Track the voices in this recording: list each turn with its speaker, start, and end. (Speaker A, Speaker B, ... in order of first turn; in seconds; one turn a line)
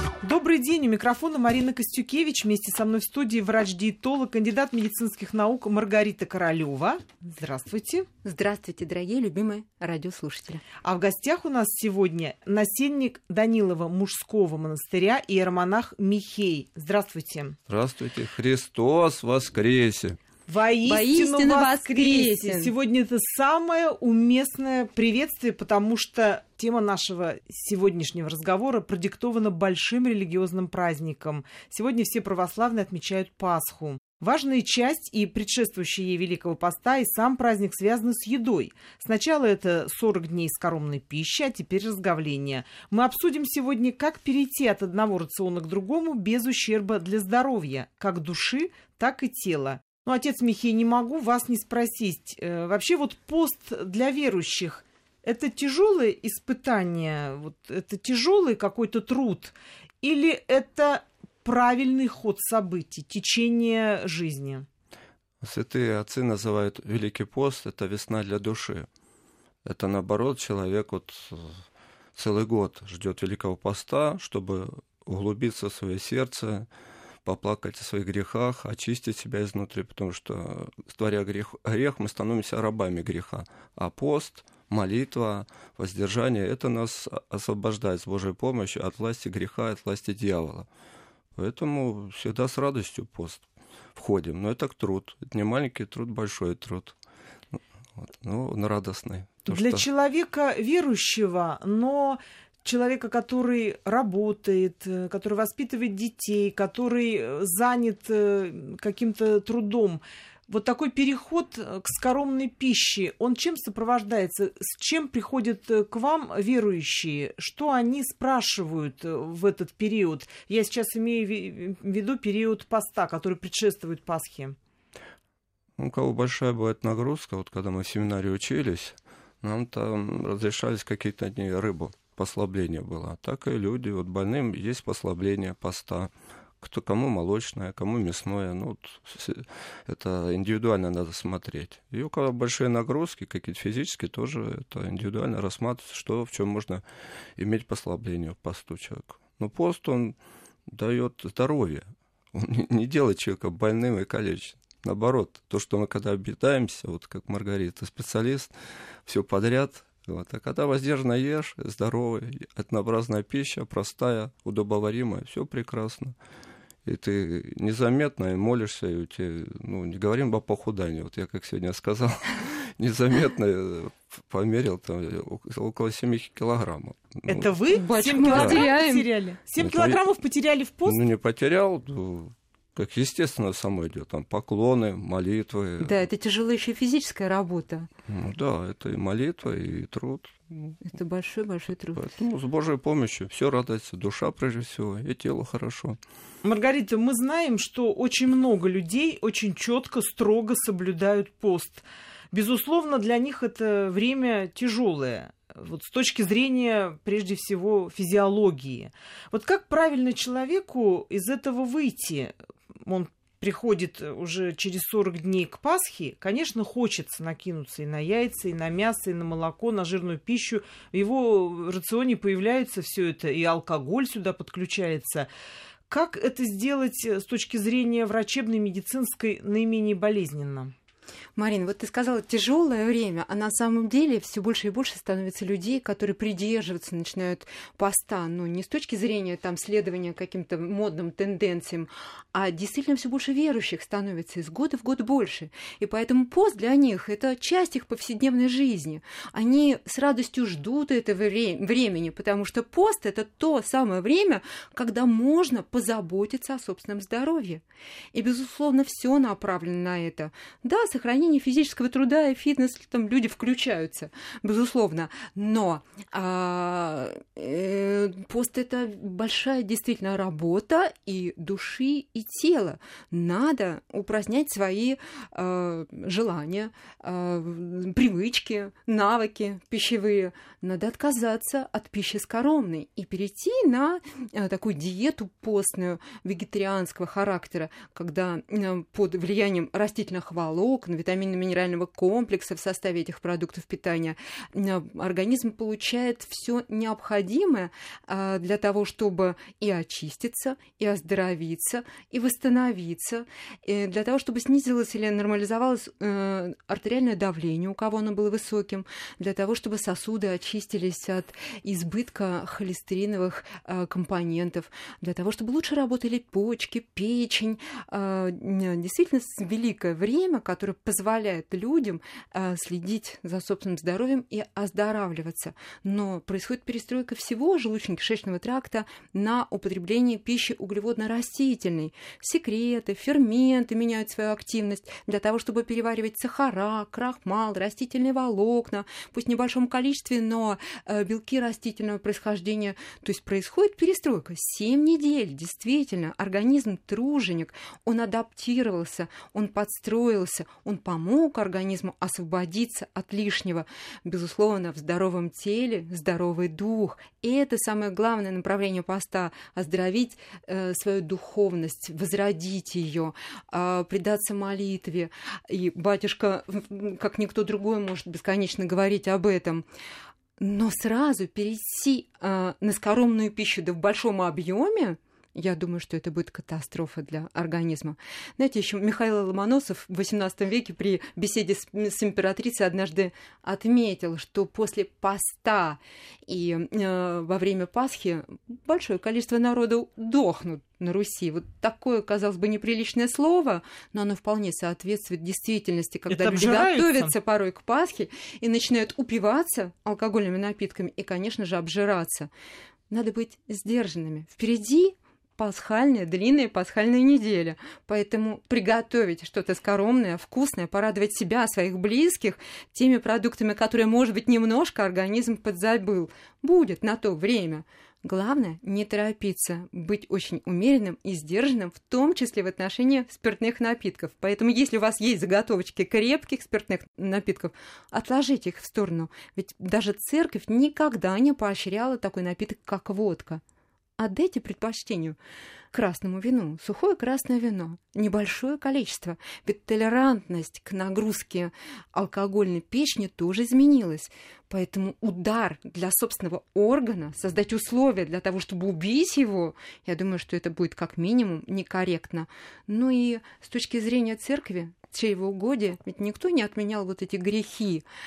Speaker A: 0.2-8.1
Speaker B: 8.2-10.6
Speaker A: 10.8-17.6
Speaker C: 17.7-20.2
Speaker A: 20.5-64.7
Speaker B: 20.9-22.7
Speaker C: 65.4-68.9
Speaker C: 69.7-71.6
Speaker C: 72.2-76.7
Speaker C: 77.2-90.7
Speaker C: 91.4-97.0
Speaker C: 97.5-99.9
Speaker A: 99.5-124.6
Speaker C: 125.8-146.8
Speaker C: 147.4-150.2
Speaker C: 150.7-158.5
Speaker C: 159.1-166.2
Speaker C: 166.8-177.5
Speaker A: 177.3-181.0
Speaker B: 177.7-179.1
Speaker C: 178.2-178.7
Speaker C: 179.6-180.0
Speaker C: 180.9-186.0
Speaker B: 185.8-187.9
Speaker C: 188.1-190.3
Speaker B: 190.8-192.1
Speaker C: 192.0-196.0
Speaker A: 196.4-225.3
Speaker A: 225.9-230.7
Speaker B: 231.4-257.6
Speaker B: 258.1-369.6
Speaker B: 370.4-402.3
Speaker A: 396.1-397.1
Speaker B: 402.9-433.4
Speaker B: 434.0-435.2
Speaker B: 435.7-457.9